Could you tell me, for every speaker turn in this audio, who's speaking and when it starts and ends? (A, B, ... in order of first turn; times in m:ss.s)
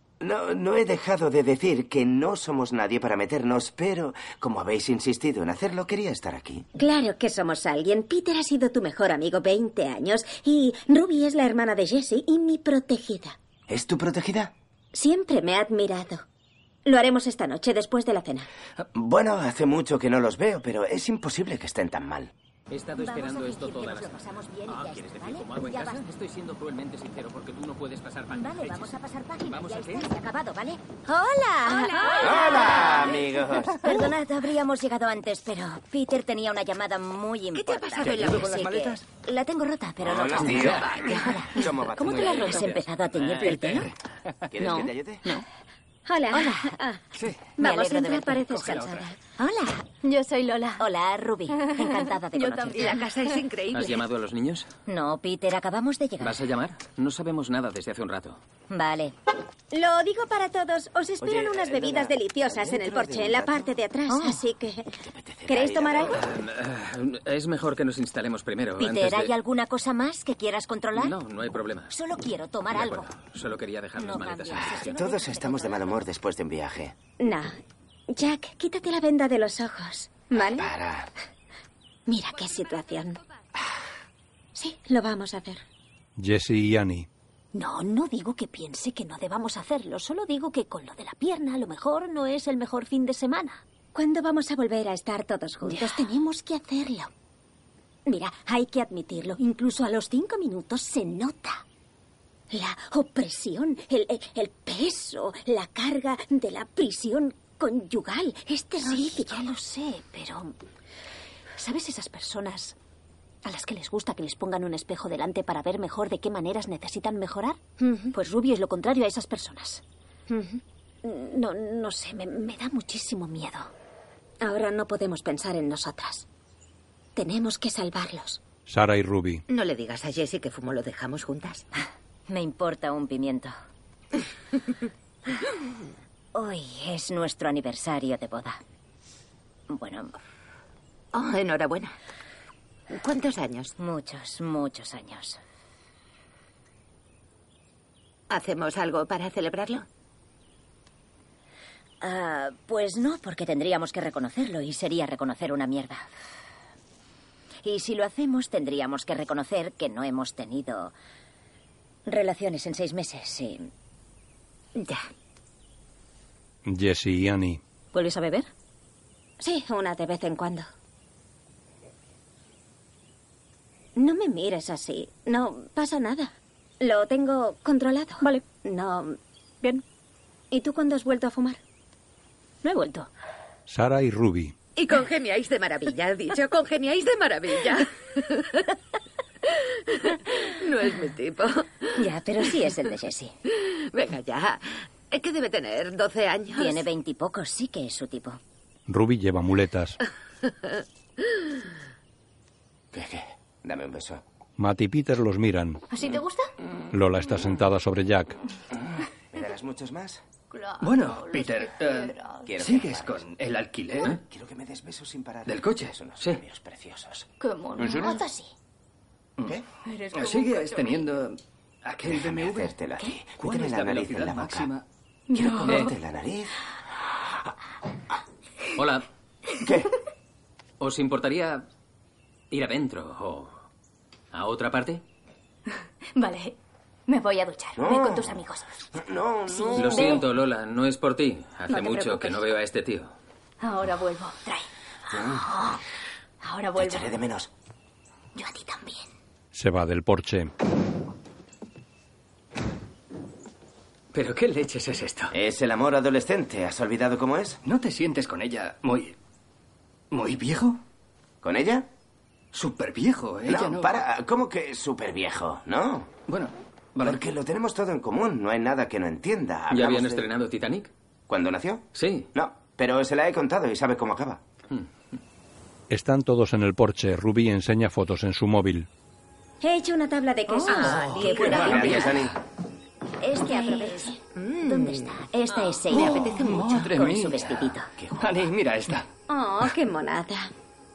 0:00.2-0:06.7 A
0:06.8-0:13.4 B
0:13.7-0:14.5 A
0:14.9-0:16.2 B
0:16.8-0:18.5 B
0:18.9-0:22.3 A
0:22.7-0:28.9 C
0:23.0-0:26.1 D
0:28.3-0:43.9 D
0:29.5-0:30.1 C
0:31.2-0:33.2 B
0:31.9-0:32.5 E
0:32.2-0:34.0 A
0:37.5-0:38.9 F
0:38.0-0:39.0 G
0:40.0-0:42.6 A
0:40.4-0:40.9 G
0:40.6-0:41.5 F
0:42.0-0:42.7 E
0:43.2-0:43.5 C
0:43.5-0:43.9 G
0:44.5-0:45.2 A
0:44.6-0:45.4 E
0:46.1-0:47.0 B
0:46.3-0:46.8 D
0:47.2-0:47.5 G
0:47.6-0:49.1 B
0:47.6-0:49.8 D
0:48.5-0:49.0 G
0:50.0-0:50.9 H
0:50.8-0:53.0 D
0:51.5-0:53.0 H
0:52.8-0:54.0 F
0:53.7-0:54.7 C
0:54.9-0:56.5 D
0:56.2-0:58.4 C
0:58.7-0:59.1 D
0:59.7-1:06.2 B
1:01.2-1:03.7 A
1:04.1-1:04.4 D
1:05.0-1:06.2 A
1:06.0-1:09.3 C
1:08.8-1:11.2 D
1:10.9-1:11.9 C
1:11.9-1:13.1 D
1:12.7-1:15.0 C
1:14.0-1:16.0 D
1:14.5-1:16.9 A
1:17.2-1:17.6 B
1:18.1-1:20.7 B
1:20.5-1:21.1 A
1:22.1-1:23.2 B
1:24.6-1:25.6 B
1:26.2-1:27.1 I
1:27.5-1:33.6 E
1:33.9-1:37.1 B
1:35.6-1:36.0 E
1:38.1-1:41.6 B
1:42.5-1:49.5 B
1:48.8-1:50.6 E
1:51.6-1:52.8 E
1:53.4-1:57.6 E
1:57.8-1:58.1 B
1:58.1-1:59.8 E
2:00.3-2:00.6 B
2:01.0-2:03.7 E
2:04.4-2:06.3 B
2:07.2-2:08.4 B
2:08.7-2:09.4 I
2:09.5-2:11.7 F
2:12.3-2:13.5 D
2:16.3-2:18.6 D
2:19.7-2:20.1 D
2:21.1-2:22.0 F
2:22.9-2:23.7 F
2:23.8-2:25.4 D
2:28.3-2:29.9 F
2:32.0-2:36.1 D
2:37.6-2:40.9 D
2:42.1-2:43.7 D
2:44.8-2:45.0 F
2:46.6-2:47.6 I
2:47.9-2:48.5 E
2:49.4-2:50.7 B
2:54.0-2:59.2 B
3:00.5-3:01.6 B
3:02.6-3:03.1 E
3:03.7-3:04.6 I
3:04.8-3:08.7 F
3:09.5-3:12.0 F
3:12.0-3:13.3 D
3:13.5-3:16.8 F
3:16.5-3:18.4 D
3:18.9-3:20.0 I
3:22.9-3:24.2 A
3:24.6-3:25.8 I
3:25.9-3:26.5 H
3:26.9-3:28.4 I
3:29.3-3:30.2 A
3:30.5-3:32.5 H
3:30.8-3:34.2 G
3:32.4-3:33.2 A
3:34.0-3:38.2 A
3:35.5-3:36.0 G
3:37.4-3:38.5 H
3:39.4-3:42.8 G
3:39.8-3:41.1 H
3:42.0-3:44.7 A
3:43.3-3:44.9 G
3:45.3-3:46.0 H
3:45.4-3:46.5 A
3:45.6-3:45.9 G
3:48.8-3:49.1 C
3:49.6-3:49.9 A
3:50.8-3:51.7 C
3:52.5-3:53.6 C
3:54.3-3:55.0 C
3:56.2-3:56.6 H
3:57.1-3:58.7 H
3:57.8-3:58.4 A
3:58.9-4:00.2 A
3:59.5-4:00.2 H
3:59.8-4:03.1 C
4:03.6-4:05.8 H
4:05.1-4:05.5 A
4:06.4-4:07.2 H
4:06.8-4:07.5 A
4:08.4-4:09.1 H
4:09.5-4:10.5 I
4:14.1-4:15.4 C
4:15.3-4:17.6 A
4:17.6-4:19.2 G
4:20.1-4:20.8 G
4:21.4-4:21.9 A
4:22.5-4:24.0 G
4:23.5-4:26.1 A
4:26.3-4:27.3 G
4:27.0-4:30.3 A
4:29.7-4:30.9 C
4:31.3-4:34.4 A
4:31.9-4:32.3 C
4:35.9-4:38.9 I
4:39.6-4:42.0 B
4:40.5-4:42.2 D
4:40.6-4:42.3 G
4:41.5-4:42.4 A
4:43.2-4:47.9 D
4:43.4-4:44.2 B
4:44.4-4:45.2 F
4:45.9-4:46.9 F
4:45.9-4:49.1 G
4:48.0-4:48.4 A
4:49.3-4:50.5 B